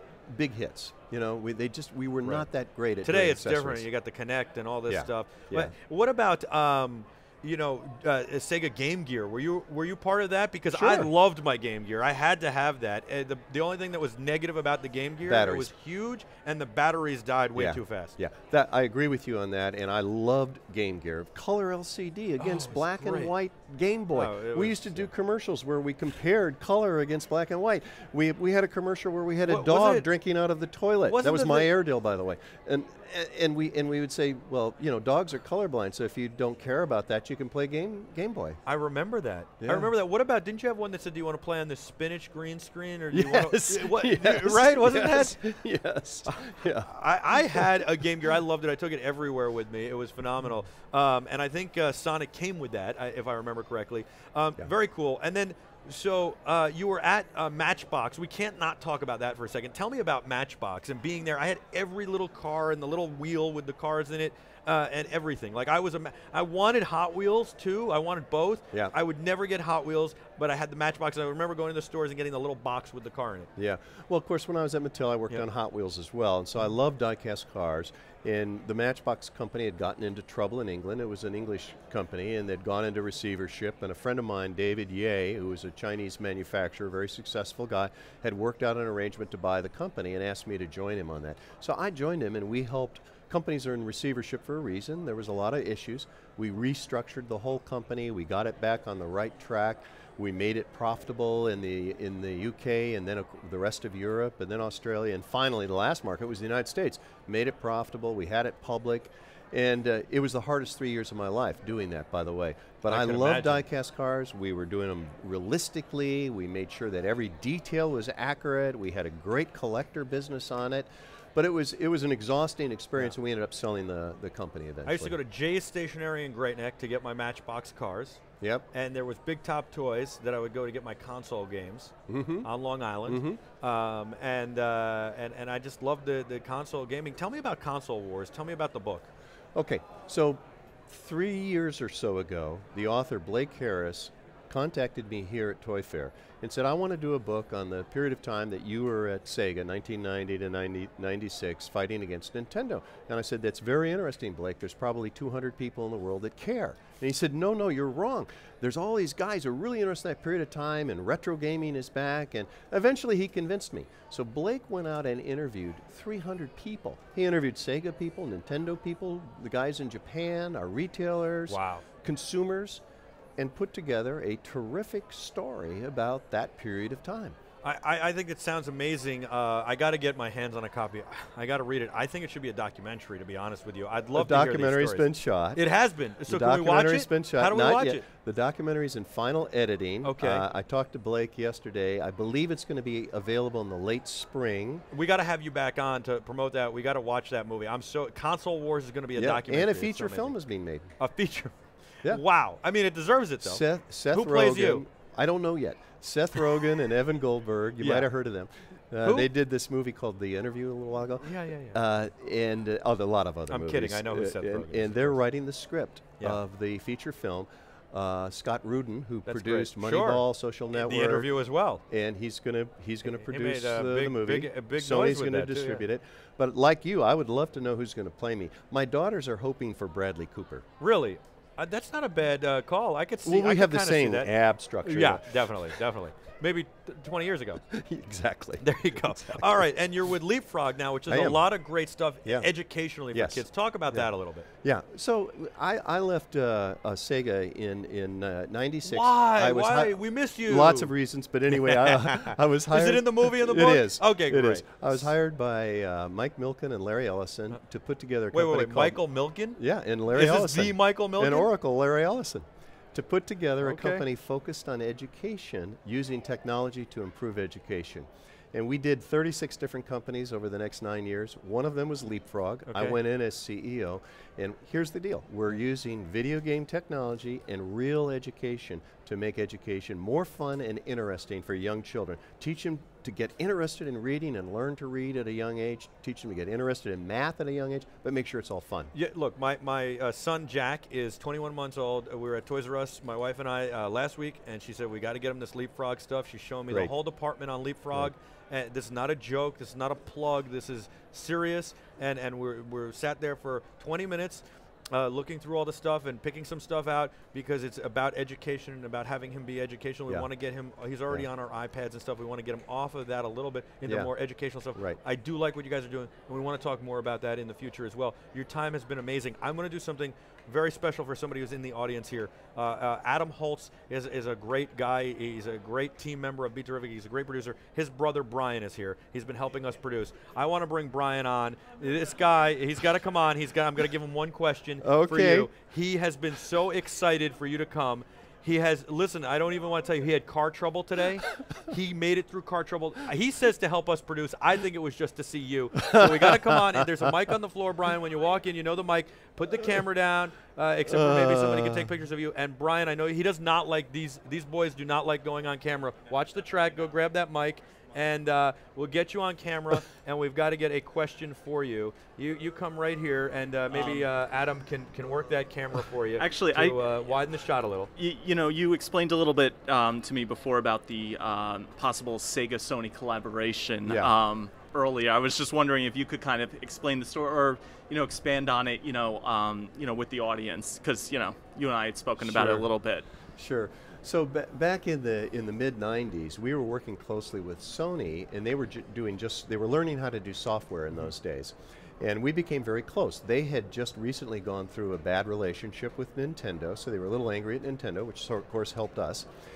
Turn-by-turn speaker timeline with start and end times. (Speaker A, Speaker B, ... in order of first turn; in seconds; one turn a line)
Speaker A: 0.3-3.9
Speaker B: 3.0-18.2
Speaker A: 4.9-5.7
Speaker A: 10.7-11.1
Speaker A: 15.3-15.7
Speaker A: 17.6-38.6
Speaker B: 22.4-23.3
Speaker B: 24.1-25.1
Speaker B: 29.4-30.1
Speaker B: 31.1-31.7
Speaker B: 38.7-45.4
Speaker A: 39.6-39.9
Speaker A: 43.1-47.7
Speaker B: 46.3-73.5
Speaker A: 73.6-125.2
Speaker B: 112.9-113.6
Speaker B: 124.9-139.1
Speaker A: 128.4-128.7
Speaker A: 132.1-132.5
Speaker A: 133.1-133.4
Speaker A: 139.6-172.8
Speaker B: 171.5-171.8
Speaker A: 173.4-177.4
Speaker B: 177.6-188.1
Speaker A: 184.1-185.6
Speaker A: 186.3-194.9
Speaker B: 190.0-190.4
Speaker B: 194.9-200.4
Speaker A: 199.2-200.9
Speaker B: 201.0-204.8
Speaker A: 203.4-221.3
Speaker B: 207.8-208.1
Speaker B: 211.2-211.8
Speaker B: 213.5-215.2
Speaker B: 219.3-221.8
Speaker A: 221.9-230.7
Speaker B: 223.0-225.8
Speaker B: 230.8-237.6
Speaker A: 233.2-235.4
Speaker A: 237.6-239.6
Speaker B: 238.6-244.5
Speaker A: 241.1-241.5
Speaker A: 243.1-244.1
Speaker A: 244.6-259.0
Speaker B: 248.8-250.9
Speaker B: 251.6-255.1
Speaker B: 258.3-259.6
Speaker A: 259.6-288.9
Speaker B: 260.1-261.5
Speaker B: 263.6-264.1
Speaker B: 272.7-273.0
Speaker B: 288.9-367.9
Speaker A: 313.9-314.1
Speaker A: 314.8-315.0
Speaker A: 334.8-335.5
Speaker A: 345.8-347.1
Speaker A: 350.9-351.9
Speaker C: 363.7-364.1
Speaker C: 366.2-366.9
Speaker C: 367.9-383.1
Speaker A: 373.9-374.1
Speaker A: 382.2-382.7
Speaker A: 383.4-399.3